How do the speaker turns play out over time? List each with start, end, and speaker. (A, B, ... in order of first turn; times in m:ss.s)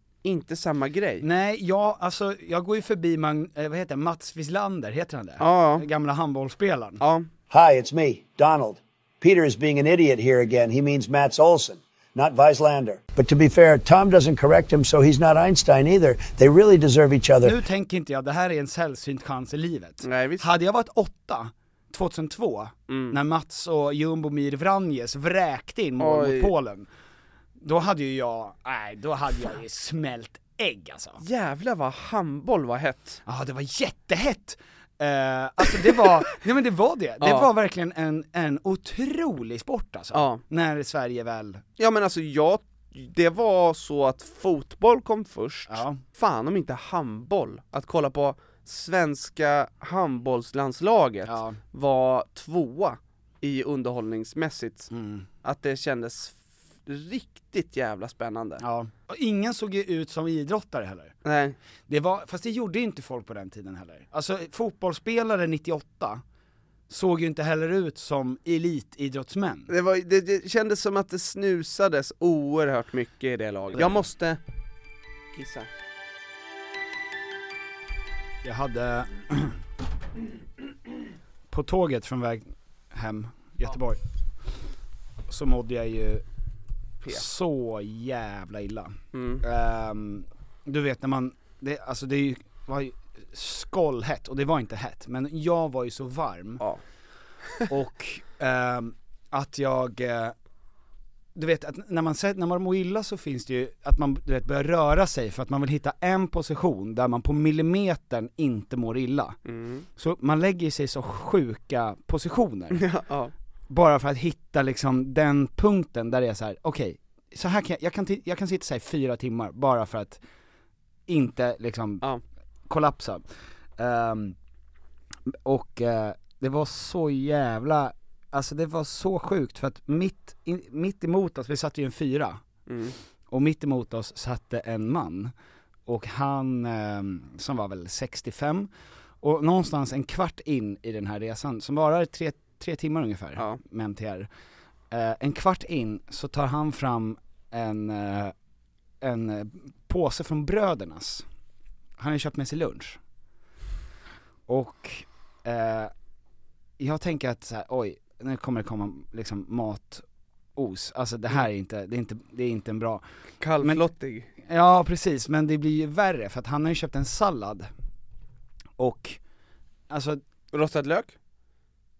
0:00.2-0:01.2 A
0:01.2-0:07.0 B
0:05.4-0:05.8 A
0:07.0-0:07.3 A
0:07.5-0:17.6 C
0:17.4-0:26.9 B
0:20.0-0:20.5 A
0:22.9-0:23.2 A
0:26.0-0:26.5 A
0:27.6-0:31.2 B
0:31.2-0:33.2 A
0:33.3-0:41.6 B
0:37.2-0:37.5 A
0:40.1-0:40.4 A
0:41.8-0:54.9 A
0:45.7-0:46.0 B
0:51.3-0:51.6 B
0:54.9-0:55.3 B
0:55.4-0:58.6 A
0:58.6-1:01.1 B
1:01.2-1:01.6 A
1:01.9-1:06.2 B
1:06.9-1:09.7 B
1:09.7-1:14.4 A
1:13.8-1:14.0 B
1:15.3-1:15.7 A
1:18.4-1:19.6 B
1:21.5-1:24.0 B
1:25.3-1:26.2 B
1:27.1-1:36.6 B
1:29.1-1:29.4 A
1:37.7-1:40.4 B
1:41.4-1:49.4 B
1:49.4-1:49.9 A
1:50.0-1:52.9 B
1:52.7-1:53.3 A
1:53.7-2:00.2 B
2:01.1-2:02.0 B
2:02.7-2:03.2 B
2:03.8-2:04.4 B
2:05.3-2:12.4 B
2:12.7-2:13.0 A
2:13.3-2:15.3 B
2:15.9-2:18.7 B
2:19.2-2:24.3 B
2:24.9-2:28.3 B
2:29.0-2:31.2 B
2:32.0-2:33.0 B
2:34.5-2:35.9 B
2:36.8-2:40.0 B
2:40.6-2:43.0 B
2:43.4-2:44.3 A
2:44.4-2:47.7 B
2:48.8-2:49.2 B
2:49.9-2:50.2 B
2:50.5-2:51.1 A